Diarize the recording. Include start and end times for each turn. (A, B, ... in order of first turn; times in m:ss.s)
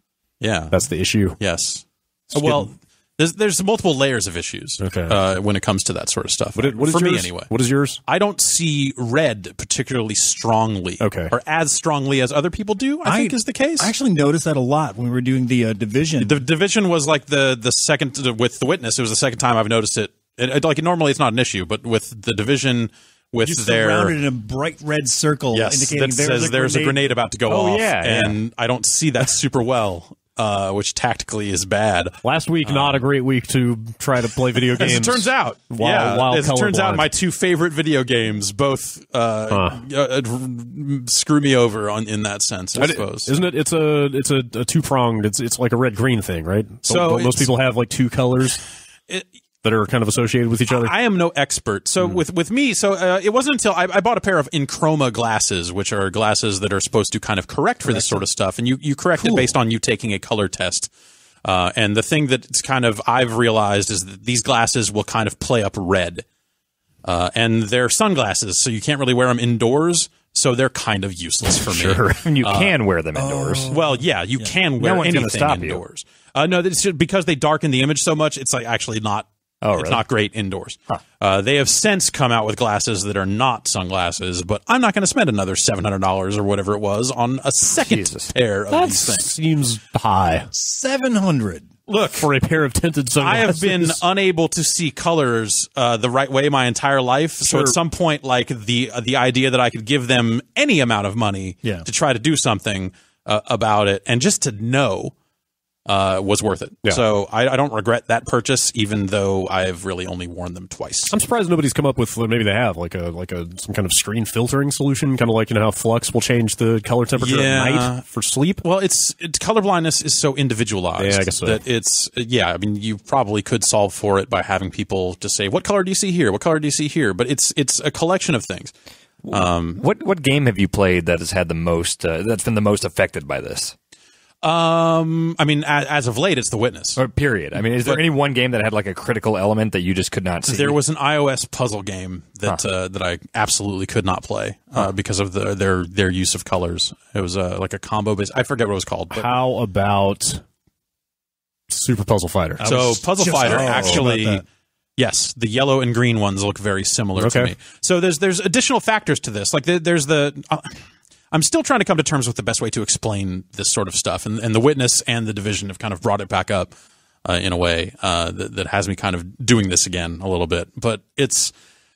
0:00.4-0:00.8 A
0:00.7-0:01.4 B
0:01.4-0:07.5 A
0:02.3-0:02.7 B
0:04.8-0:05.2 B
0:06.6-0:08.0 B
0:08.1-0:13.9 A
0:11.0-0:11.3 B
0:13.0-0:16.4 C
0:16.2-0:24.2 A
0:23.4-0:27.0 C
0:25.5-0:33.0 A
0:27.5-0:28.4 D
0:32.2-0:37.1 B
0:34.8-0:43.4 A
0:39.5-0:39.8 B
0:42.8-0:48.6 B
0:46.8-0:47.5 A
0:49.6-0:50.9 B
0:50.7-1:00.9 A
0:57.8-0:58.3 C
0:59.2-0:59.5 C
1:01.4-1:06.2 A
1:07.0-1:12.8 A
1:11.5-1:13.7 D
1:13.1-1:14.5 C
1:13.7-1:29.3 A
1:14.8-1:15.8 D
1:19.6-1:20.0 D
1:27.7-1:28.3 D
1:28.7-1:30.5 B
1:30.5-1:31.7 C
1:31.9-1:32.3 A
1:32.1-1:34.0 B
1:33.2-1:45.1 A
1:37.4-1:37.8 B
1:45.9-1:51.2 A
1:51.1-1:58.6 B
1:57.2-1:58.0 A
1:58.6-2:08.7 A
2:01.0-2:01.6 B
2:09.2-2:13.7 D
2:09.3-2:09.8 A
2:14.4-2:17.0 A
2:17.0-2:20.8 D
2:20.4-2:29.3 A
2:29.1-2:30.4 B
2:31.7-2:32.6 B
2:32.6-2:34.4 C
2:32.6-2:34.4 A
2:35.0-2:46.7 A
2:37.2-2:37.5 B
2:47.2-2:51.5 A